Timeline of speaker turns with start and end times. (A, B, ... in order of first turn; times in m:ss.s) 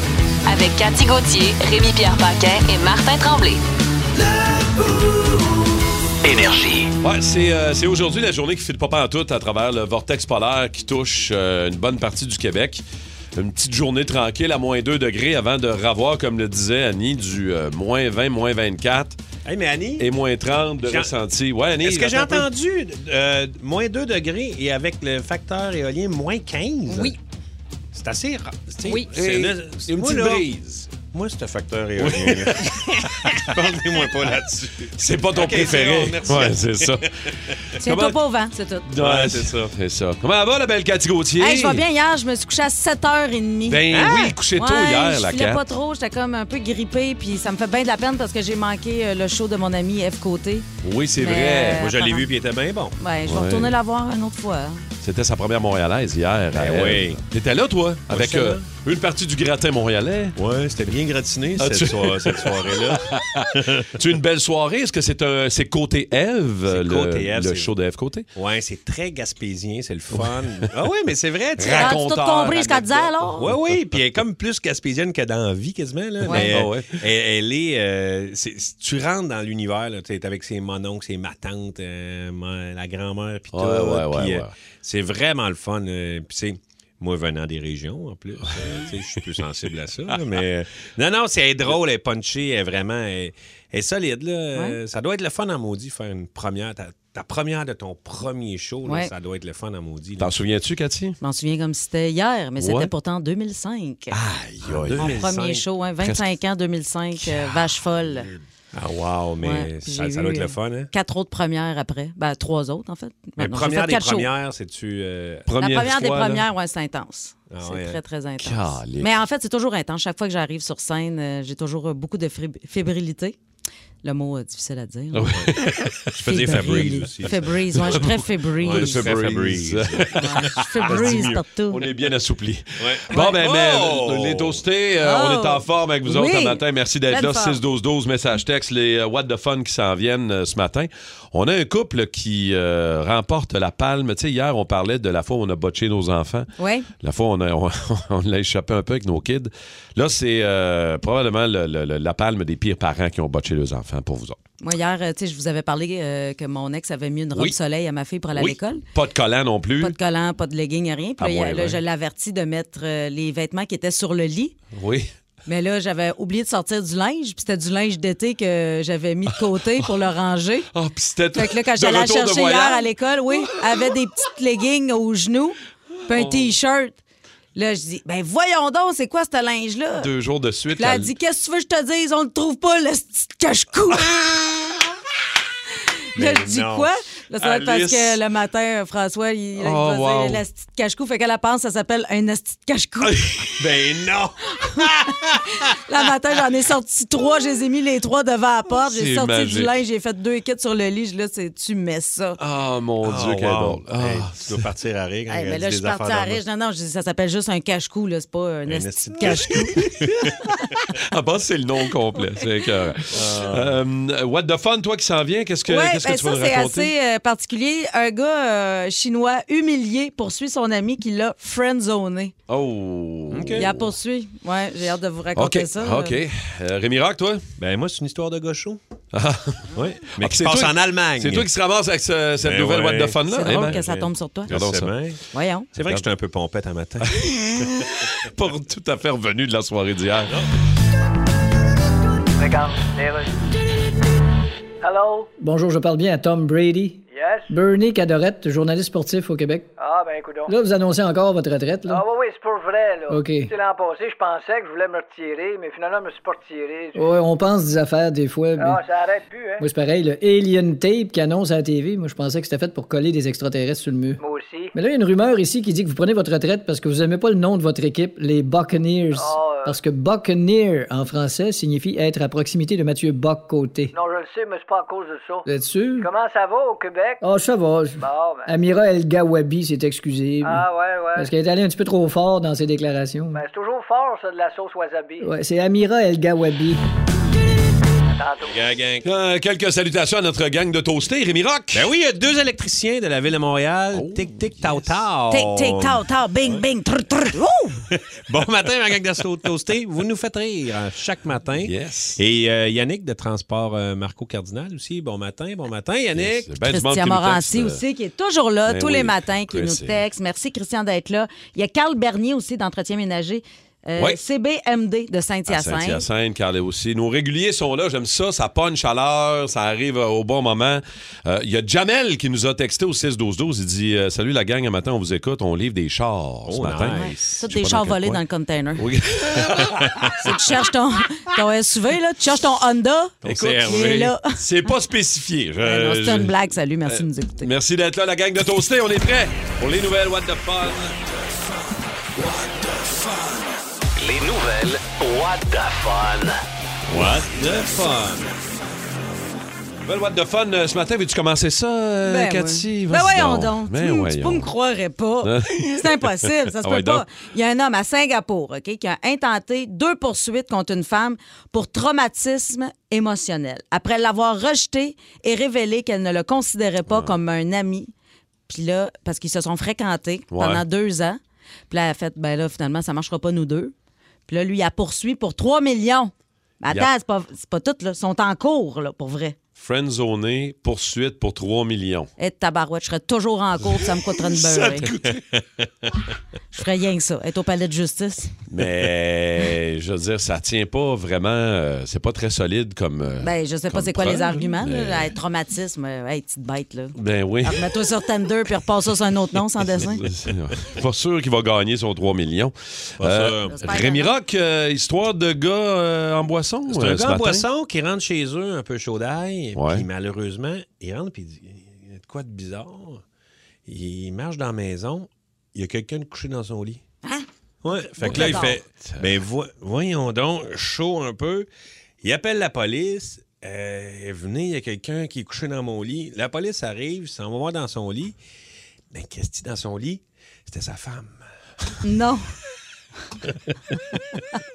0:00.4-0:03.6 A
0:06.2-0:06.9 A
0:07.0-0:19.2 B
0:19.4-0:20.1 C
0:20.0-0:22.5 B
0:20.9-0:21.1 C
0:21.8-0:27.1 C
0:27.9-0:37.6 C
0:29.1-0:30.7 B
0:32.0-0:33.5 B
0:34.9-0:37.1 B
0:37.7-0:38.2 B
0:37.8-0:38.9 D
0:38.8-0:41.8 B
0:39.0-0:39.7 C
0:41.4-0:50.7 D
0:43.7-0:45.6 B
0:43.9-0:44.3 C
0:50.8-0:51.9 B
0:51.2-0:52.3 D
0:51.6-0:53.0 C
0:53.0-0:54.8 D
0:53.2-0:53.8 B
0:55.0-1:00.4 B
0:56.6-0:57.2 C
0:58.1-0:58.6 C
1:00.4-1:03.9 C
1:01.6-1:08.3 B
1:06.6-1:07.7 C
1:08.3-1:12.0 C
1:11.6-1:14.2 B
1:11.7-1:13.4 D
1:13.4-1:40.4 C
1:16.3-1:17.0 B
1:23.5-1:24.5 B
1:38.8-1:39.1 D
1:40.2-1:41.2 B
1:41.2-1:44.2 D
1:42.6-1:42.9 B
1:44.1-1:45.3 B
1:44.2-1:45.6 C
1:45.0-1:48.3 D
1:46.0-1:46.4 B
1:48.7-1:50.9 C
1:49.4-1:54.3 D
1:53.4-1:55.5 C
1:55.5-1:56.4 B
1:55.6-2:03.4 D
1:57.5-1:58.0 C
1:58.4-1:59.1 B
2:04.0-2:05.5 D
2:05.1-2:26.5 B
2:06.2-2:08.0 C
2:06.2-2:09.2 D
2:08.6-2:11.4 C
2:10.2-2:11.8 D
2:12.8-2:14.6 C
2:15.0-2:17.6 D
2:26.6-2:26.9 D
2:27.0-2:34.4 B
2:34.6-2:38.8 D
2:38.3-2:39.9 B
2:39.8-2:44.6 D
2:41.2-2:41.8 B
2:44.7-2:45.1 B
2:45.4-2:50.7 D
2:50.7-2:53.6 B
2:51.3-2:57.0 D
2:56.1-2:56.5 B
2:57.5-3:00.1 D
3:00.0-3:01.1 B
3:00.8-3:04.1 D
3:06.1-3:13.2 D
3:06.2-3:06.9 C
3:07.4-3:08.2 B
3:09.6-3:10.4 B
3:13.0-3:13.6 B
3:13.6-3:15.4 C
3:14.6-3:22.4 D
3:18.8-3:19.8 B
3:22.4-3:24.7 B
3:23.0-3:26.4 C
3:25.3-3:29.8 D
3:28.7-3:30.2 C
3:29.4-3:36.9 B
3:33.1-3:33.8 C
3:35.7-3:42.3 D
3:42.5-3:43.9 B
3:43.3-3:43.6 C
3:43.6-3:46.2 D
3:45.4-3:47.4 B
3:47.6-3:48.8 C
3:49.1-3:54.0 B
3:49.7-3:51.5 C
3:52.4-3:55.2 C
3:53.3-3:54.5 D
3:54.5-3:54.9 B
3:55.3-3:55.7 D
3:55.7-3:57.2 C
3:55.8-3:56.0 B
3:57.0-4:00.4 B
4:02.3-4:03.4 E
4:04.8-4:05.3 E
4:05.4-4:09.7 F
4:07.1-4:07.5 E
4:09.8-4:10.5 E
4:10.4-4:12.0 F
4:11.9-4:17.0 E
4:13.1-4:13.5 F
4:16.9-4:18.8 F
4:18.6-4:19.6 E
4:19.6-4:24.2 F
4:24.2-4:24.7 E
4:24.7-4:33.9 F
4:29.1-4:29.7 E
4:33.9-4:37.2 E
4:35.4-4:36.1 F
4:37.2-4:43.4 F
4:38.0-4:38.5 E
4:40.4-4:41.3 E
4:43.3-4:45.3 E
4:45.2-4:46.8 F
4:48.1-4:48.6 E
4:48.5-4:49.0 C
4:49.0-4:51.9 B
4:51.7-4:56.6 C
4:53.9-4:54.9 B
4:55.3-4:57.8 D
4:57.9-5:06.5 C
5:01.6-5:02.2 B
5:06.2-5:07.8 B
5:06.6-5:16.0 D
5:08.7-5:10.0 B
5:15.5-5:28.2 B
5:26.5-5:27.4 C
5:27.0-5:28.9 D
5:28.8-5:30.2 B
5:29.8-5:30.1 C
5:30.2-5:33.1 D
5:33.2-5:34.0 C
5:33.2-5:41.1 B
5:33.6-5:34.3 D
5:35.6-5:37.5 D
5:42.2-5:43.5 B
5:44.0-5:46.4 G
5:46.9-5:47.3 B
5:46.9-5:48.3 C
5:49.8-5:54.5 B
5:52.0-6:07.9 D
5:55.2-5:57.0 B
6:06.9-6:07.1 B
6:08.5-6:11.2 D
6:10.3-6:10.6 B
6:11.7-6:13.7 D
6:14.3-6:19.4 D
6:19.6-6:22.1 B
6:22.2-6:24.9 D
6:23.6-6:25.2 B
6:26.5-6:28.3 D
6:28.5-6:35.1 B
6:33.2-6:40.0 D
6:36.9-6:37.7 B
6:39.7-6:47.4 B
6:43.0-6:43.6 C
6:43.5-6:44.1 D
6:46.7-6:53.0 C
6:49.5-6:49.8 B
6:53.6-6:56.8 C
6:57.6-7:01.5 C
6:58.0-6:59.2 B
6:58.0-6:58.6 D
7:02.0-7:08.1 C
7:08.9-7:11.2 C
7:11.8-7:12.3 D
7:13.3-7:14.2 C